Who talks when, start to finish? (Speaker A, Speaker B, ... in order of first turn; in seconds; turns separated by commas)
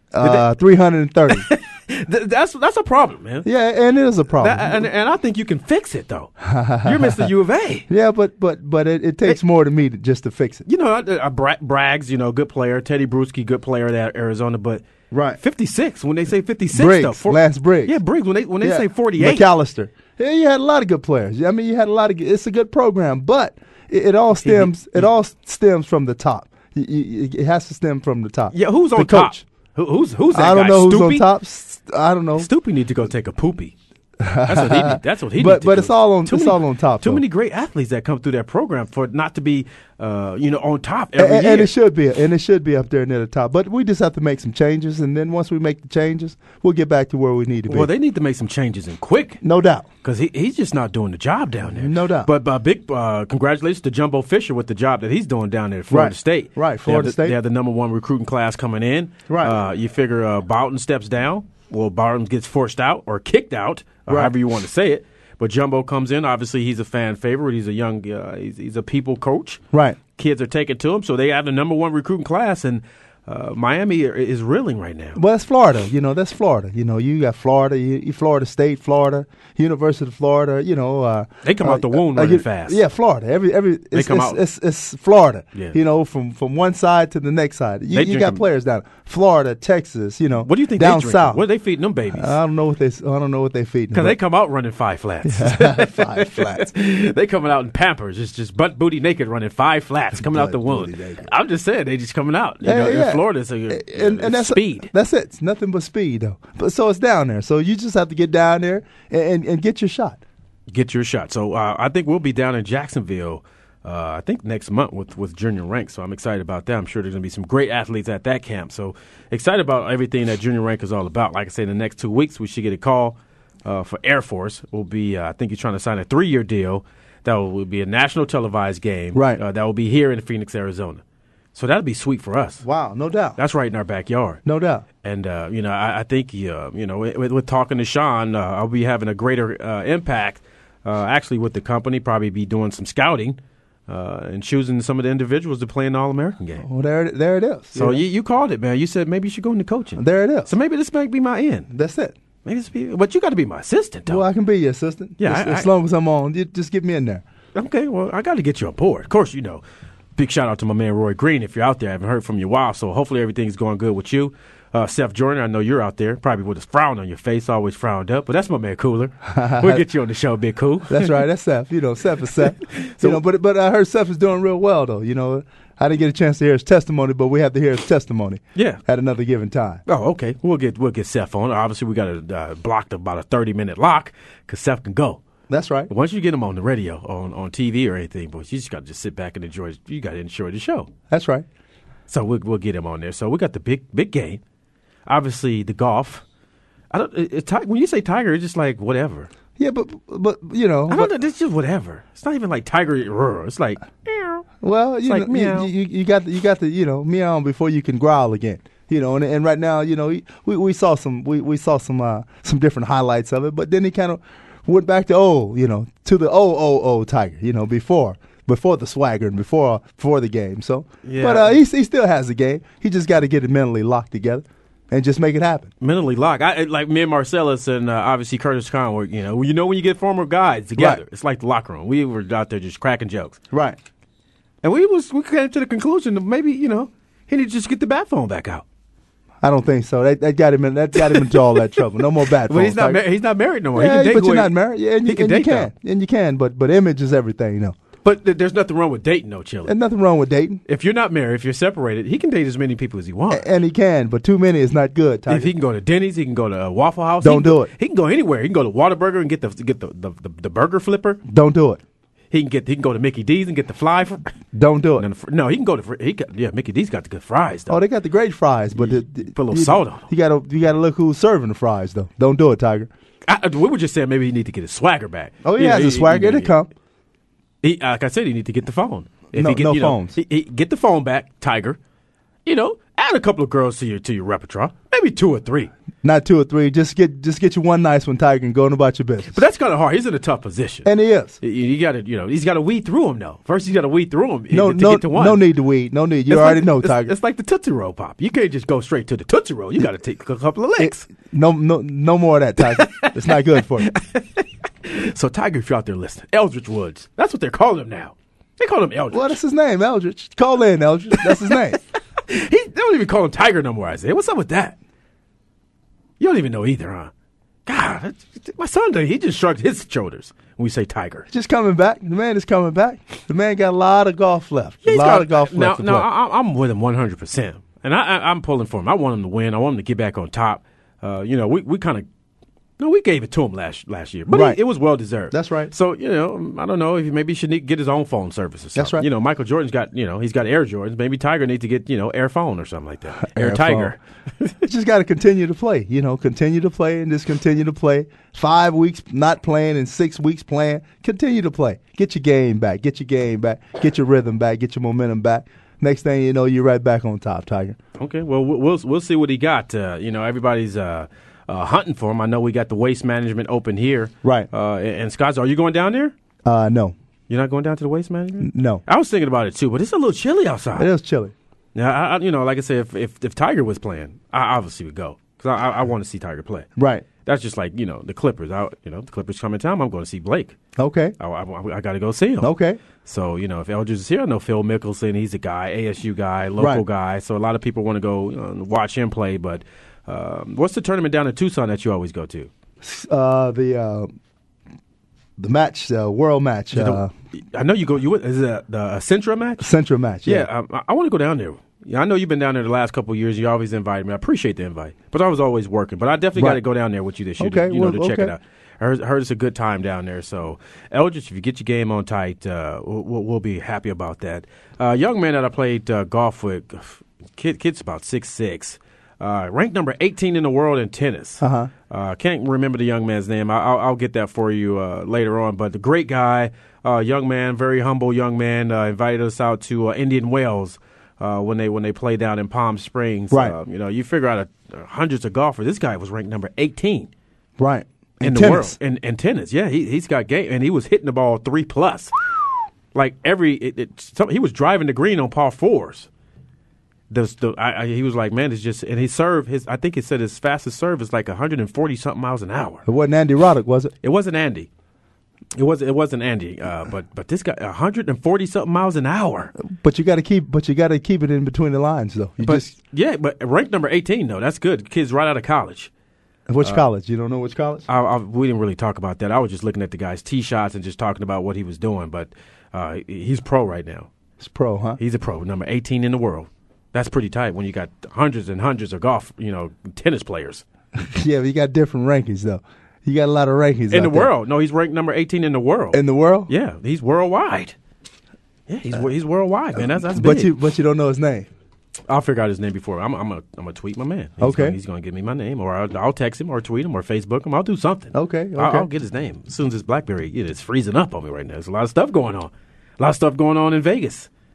Speaker A: 0.1-1.5, Speaker B: 1.3-3.5, Speaker A: 3.5-4.9, Speaker B: 4.4-6.3, Speaker A: 6.4-7.3, Speaker B: 6.8-7.9, Speaker A: 7.9-10.6, Speaker B: 10.7-14.8, Speaker A: 15.1-15.4, Speaker B: 15.4-19.5, Speaker A: 16.7-18.0, Speaker A: 18.6-29.4, Speaker B: 24.4-25.1, Speaker B: 28.5-31.2, Speaker A: 30.3-32.5, Speaker B: 32.4-33.7, Speaker A: 34.2-37.2, Speaker B: 34.5-41.7, Speaker A: 41.1-47.9, Speaker B: 47.7-49.4, Speaker A: 49.4-49.9, Speaker B: 50.0-69.6, Speaker A: 51.7-52.3, Speaker A: 55.9-57.4, Speaker A: 59.3-59.6, Speaker A: 64.1-64.3, Speaker A: 69.7-70.0, Speaker B: 70.2-75.2, Speaker A: 75.2-91.4, Speaker B: 81.4-82.8, Speaker B: 83.9-84.4, Speaker B: 87.9-88.4, Speaker B: 90.4-92.4, Speaker A: 92.1-94.2, Speaker B: 93.9-104.9, Speaker A: 95.2-96.7, Speaker A: 100.1-101.3, Speaker A: 102.6-110.2, Speaker B: 110.7-131.0, Speaker A: 129.1-129.4, Speaker B: 131.6-132.6, Speaker A: 132.6-133.4, Speaker B: 133.4-134.4, Speaker A: 134.5-134.8, Speaker B: 135.0-146.6, Speaker A: 146.6-148.0, Speaker B: 147.8-151.7, Speaker A: 150.0-150.5, Speaker A: 151.7-152.1, Speaker B: 152.4-154.2, Speaker A: 154.1-157.2, Speaker B: 155.2-155.7, Speaker B: 157.6-159.6, Speaker B: 160.2-171.2, Speaker A: 169.3-169.8, Speaker A: 170.9-179.8, Speaker B: 172.7-173.2, Speaker B: 178.6-178.8, Speaker B: 179.9-185.2, Speaker A: 185.5-185.9, Speaker B: 185.9-190.9, Speaker A: 191.1-191.5, Speaker B: 192.1-194.4, Speaker B: 195.1-196.2, Speaker B: 196.9-199.3, Speaker A: 199.6-201.1, Speaker B: 200.9-204.5, Speaker A: 204.6-225.7, Speaker B: 205.1-205.7, Speaker B: 221.0-221.6, Speaker B: 225.8-233.4, Speaker A: 233.5-233.8, Speaker B: 234.6-238.6, Speaker A: 239.4-243.0, Speaker B: 241.0-241.6, Speaker B: 242.4-245.7, Speaker A: 243.7-247.8, Speaker B: 248.0-249.8, Speaker A: 249.7-250.6, Speaker B: 250.7-253.5, Speaker A: 253.3-255.5, Speaker B: 255.3-261.2, Speaker A: 257.2-257.7, Speaker A: 261.3-261.8, Speaker B: 262.3-264.3, Speaker A: 264.5-265.0, Speaker B: 265.0-267.8, Speaker A: 267.7-272.9, Speaker B: 268.8-270.1, Speaker B: 273.2-276.5, Speaker A: 275.4-276.7, Speaker B: 277.6-281.8, Speaker A: 279.3-280.2, Speaker B: 282.4-285.7, Speaker A: 286.0-289.4, Speaker B: 289.3-295.4, Speaker A: 290.8-291.4, Speaker A: 294.5-297.1, Speaker B: 296.3-301.1, Speaker A: 300.8-303.9, Speaker B: 302.7-309.4, Speaker A: 309.1-311.8, Speaker B: 311.2-311.6, Speaker B: 312.3-314.8, Speaker B: 316.2-317.1, Speaker B: 317.7-321.2, Speaker A: 321.3-326.1, Speaker B: 324.8-332.1, Speaker B: 332.8-344.5, Speaker A: 334.3-334.6, Speaker A: 335.3-335.7, Speaker A: 338.8-339.1, Speaker A: 343.2-343.9, Speaker A: 344.6-357.8, Speaker B: 358.0-366.1, Speaker A: 364.2-364.5, Speaker A: 366.4-366.9, Speaker B: 367.3-370.9, Speaker A: 368.4-368.8, Speaker A: 370.8-371.3, Speaker B: 371.8-376.7, Speaker A: 376.8-377.1, Speaker B: 377.2-380.6, Speaker A: 380.8-381.1, Speaker B: 381.2-382.5, Speaker A: 382.4-382.8, Speaker B: 383.0-392.5, Speaker A: 386.6-386.8, Speaker A: 392.8-394.1, Speaker A: 395.4-397.1, Speaker B: 396.7-399.7, Speaker A: 399.6-400.5, Speaker B: 400.2-437.1, Speaker A: 407.4-408.3, Speaker A: 421.4-421.7, Speaker A: 433.3-433.6, Speaker A: 437.6-438.7, Speaker B: 438.2-442.1, Speaker B: 442.9-446.1, Speaker B: 447.1-452.8, Speaker A: 452.9-453.9, Speaker B: 454.0-454.7, Speaker B: 455.5-459.5, Speaker A: 459.6-462.7, Speaker B: 462.4-465.9, Speaker A: 466.5-467.9, Speaker B: 467.9-474.1, Speaker A: 474.4-475.0, Speaker B: 475.0-480.6, Speaker A: 481.0-484.3, Speaker B: 483.9-487.8, Speaker A: 485.9-486.5, Speaker B: 488.7-490.5, Speaker A: 489.8-491.5, Speaker B: 492.1-504.3, Speaker A: 494.4-494.8, Speaker A: 498.1-498.9